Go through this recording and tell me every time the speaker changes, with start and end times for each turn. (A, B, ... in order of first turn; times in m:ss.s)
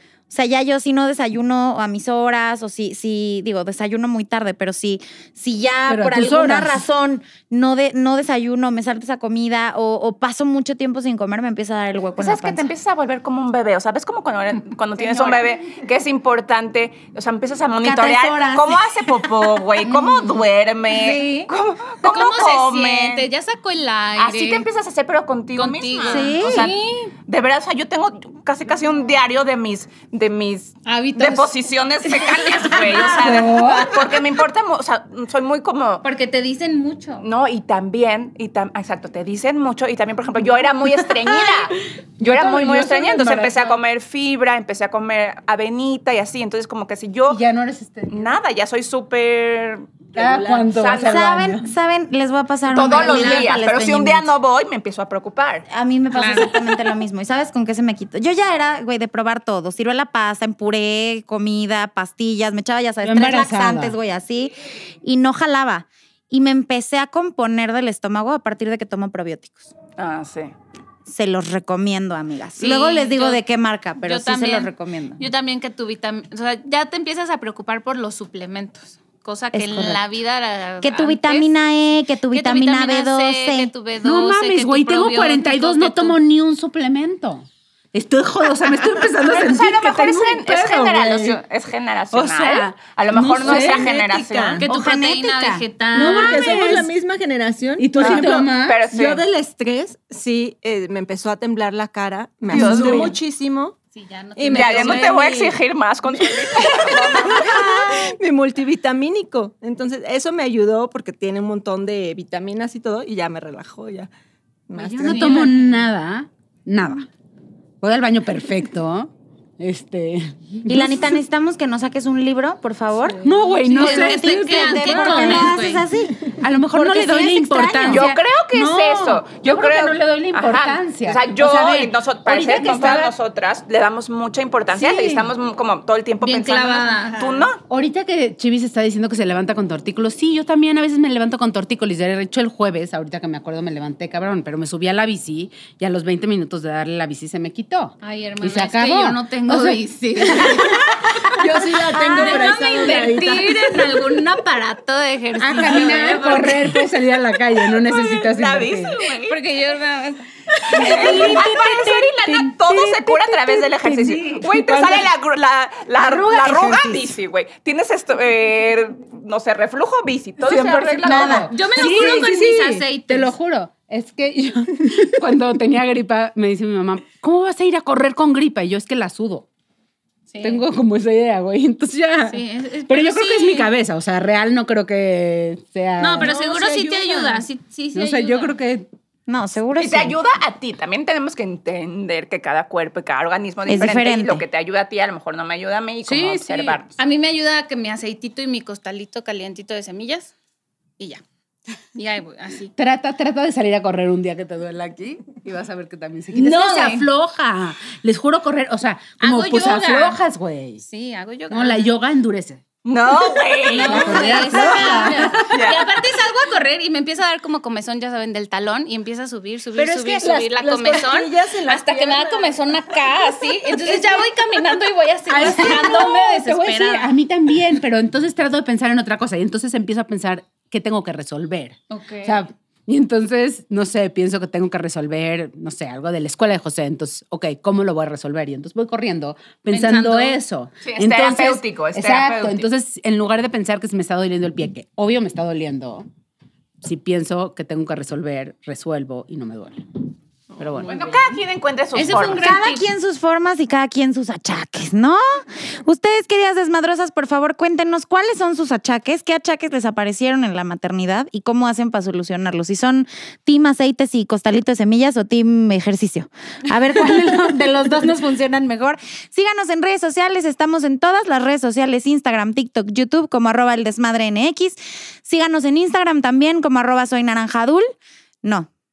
0:00.3-0:12.7 A
0:05.9-0:06.8 B
0:12.2-0:23.3 C
0:17.8-0:19.5 A
0:19.8-0:20.4 D
0:20.9-0:21.5 A
0:22.0-0:24.6 D
0:24.2-0:26.7 C
0:25.5-0:27.1 D
0:26.1-0:26.7 A
0:27.2-0:36.0 C
0:30.8-0:33.6 D
0:33.2-0:33.9 B
0:36.0-0:37.2 D
0:37.2-0:47.4 C
0:41.3-0:41.5 B
0:42.2-0:43.7 B
0:47.3-0:48.2 B
0:48.1-0:50.0 C
0:50.1-0:51.7 B
0:50.2-0:50.7 E
0:50.7-0:51.2 C
0:51.0-0:54.3 A
0:52.7-0:55.6 C
0:52.9-0:53.5 D
0:55.7-1:09.7 A
0:56.1-0:56.6 D
1:03.0-1:04.0 B
1:10.0-1:10.5 C
1:11.0-1:15.2 A
1:12.6-1:13.4 D
1:14.0-1:21.5 D
1:19.5-1:20.0 A
1:20.8-1:23.7 A
1:22.3-1:26.2 D
1:24.0-1:31.4 B
1:29.2-1:34.6 C
1:32.1-1:33.9 B
1:33.4-1:34.7 E
1:34.6-1:36.8 D
1:34.6-1:35.6 A
1:35.9-1:43.8 E
1:36.0-1:36.9 B
1:37.8-1:38.8 B
1:38.0-1:39.2 C
1:42.5-1:43.2 B
1:42.5-1:43.2 C
1:43.9-1:45.3 D
1:44.4-1:45.6 E
1:44.5-1:47.6 C
1:46.3-1:54.1 E
1:54.7-1:55.6 E
1:55.0-1:57.1 B
1:55.0-1:55.5 D
1:57.8-2:01.1 B
2:00.6-2:08.1 A
2:03.2-2:05.6 B
2:03.7-2:05.8 D
2:06.3-2:13.1 B
2:07.8-2:17.6 C
2:14.7-2:15.3 A
2:16.2-2:17.5 D
2:17.7-2:33.5 B
2:28.0-2:30.9 D
2:31.4-2:33.6 E
2:31.5-2:36.8 D
2:31.9-2:32.5 A
2:35.4-2:39.0 B
2:35.8-2:36.2 C
2:37.8-2:39.4 C
2:39.2-2:41.4 D
2:40.7-2:45.1 B
2:40.8-2:51.5 C
2:40.8-2:42.1 A
2:46.0-2:47.1 A
2:50.4-2:59.5 B
2:51.0-2:52.3 A
2:51.0-2:53.3 D
3:00.3-3:00.6 D
3:00.4-3:08.9 B
3:02.3-3:03.7 D
3:06.0-3:08.5 D
3:09.3-3:10.2 A
3:09.8-3:16.9 C
3:13.7-3:14.4 A
3:16.0-3:16.8 B
3:17.0-3:20.3 D
3:21.9-3:22.7 D
3:22.8-3:30.8 B
3:26.3-3:27.1 D
3:29.2-3:30.2 D
3:30.8-3:31.9 D
3:31.5-3:32.6 B
3:32.8-3:35.9 C
3:33.6-3:47.1 D
3:33.7-3:35.6 B
3:39.8-3:43.2 E
3:45.3-4:06.1 B
3:51.9-3:52.4 D
3:59.7-4:00.4 D
4:00.8-4:02.7 C
4:06.8-4:09.8 B
4:10.6-4:11.4 B
4:10.8-4:12.5 C
4:11.9-4:12.9 D
4:12.0-4:37.9 A
4:38.4-4:38.7 A